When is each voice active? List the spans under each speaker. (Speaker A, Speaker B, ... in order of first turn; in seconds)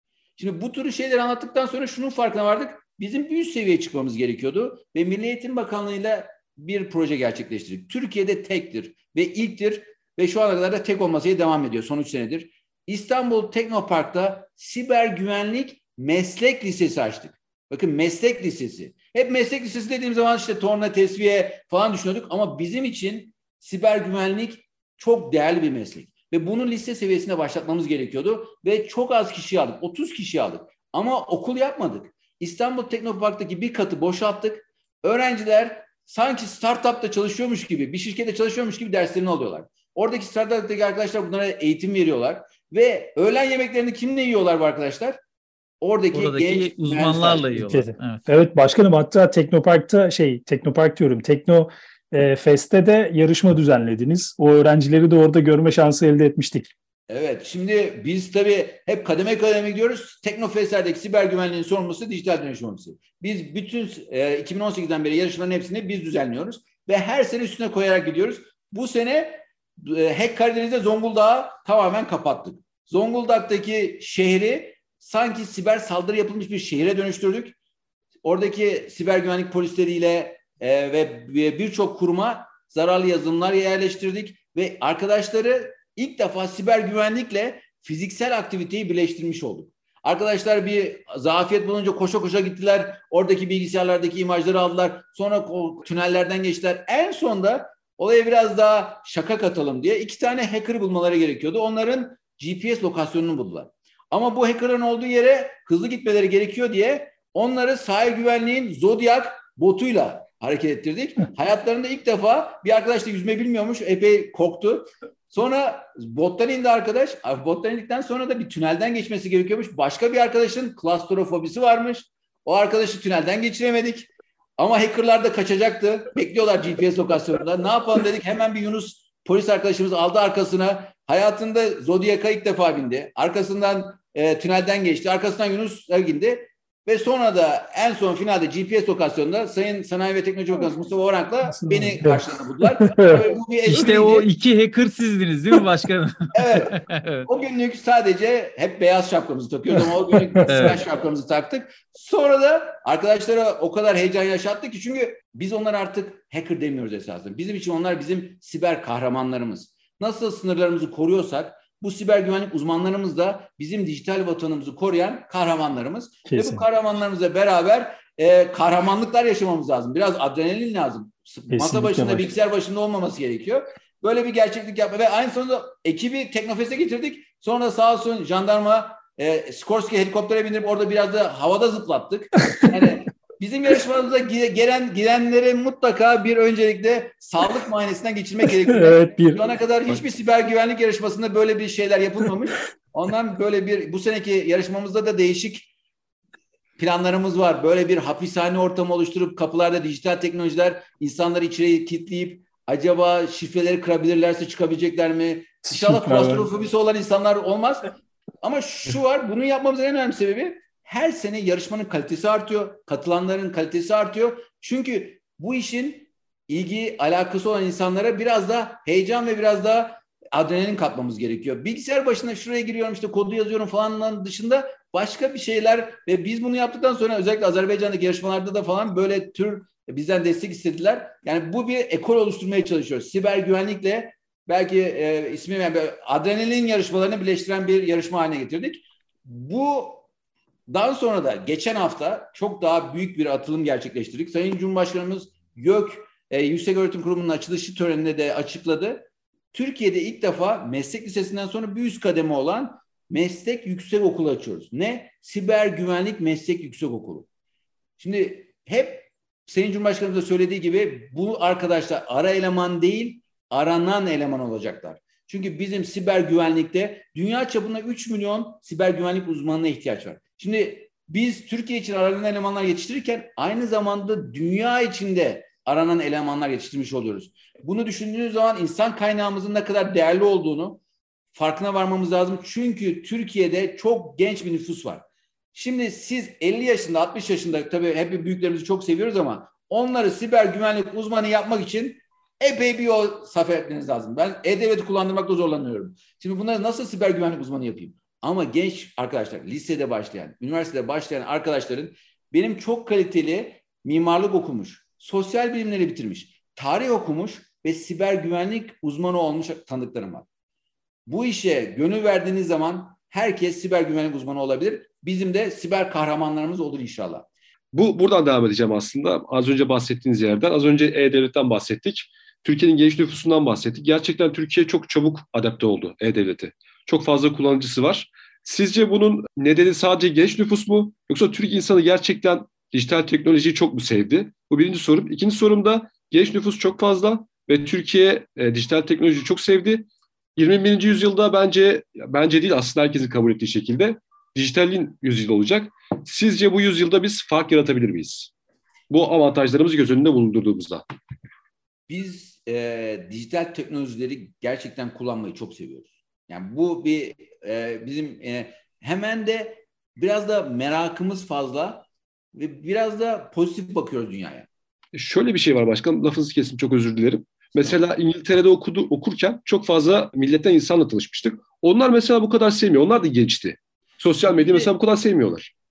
Speaker A: 0.4-45.2, 45.8-47.5, 57.1-77.5, 78.2-144.3, 146.3-195.7, 196.8-240.1, 240.7-257.3, 258.0-280.8, 281.3-310.2, 311.1-317.3, 351.9-364.5, 374.3-374.7
Speaker B: 46.1-48.2, 143.7-147.3, 150.5-150.8
Speaker C: 47.5-56.7, 141.5-143.3, 150.4-150.7, 166.3-166.6, 171.5-172.3, 188.6-189.4, 205.6-206.5
Speaker D: 317.7-348.3, 348.9-350.8, 364.9-375.5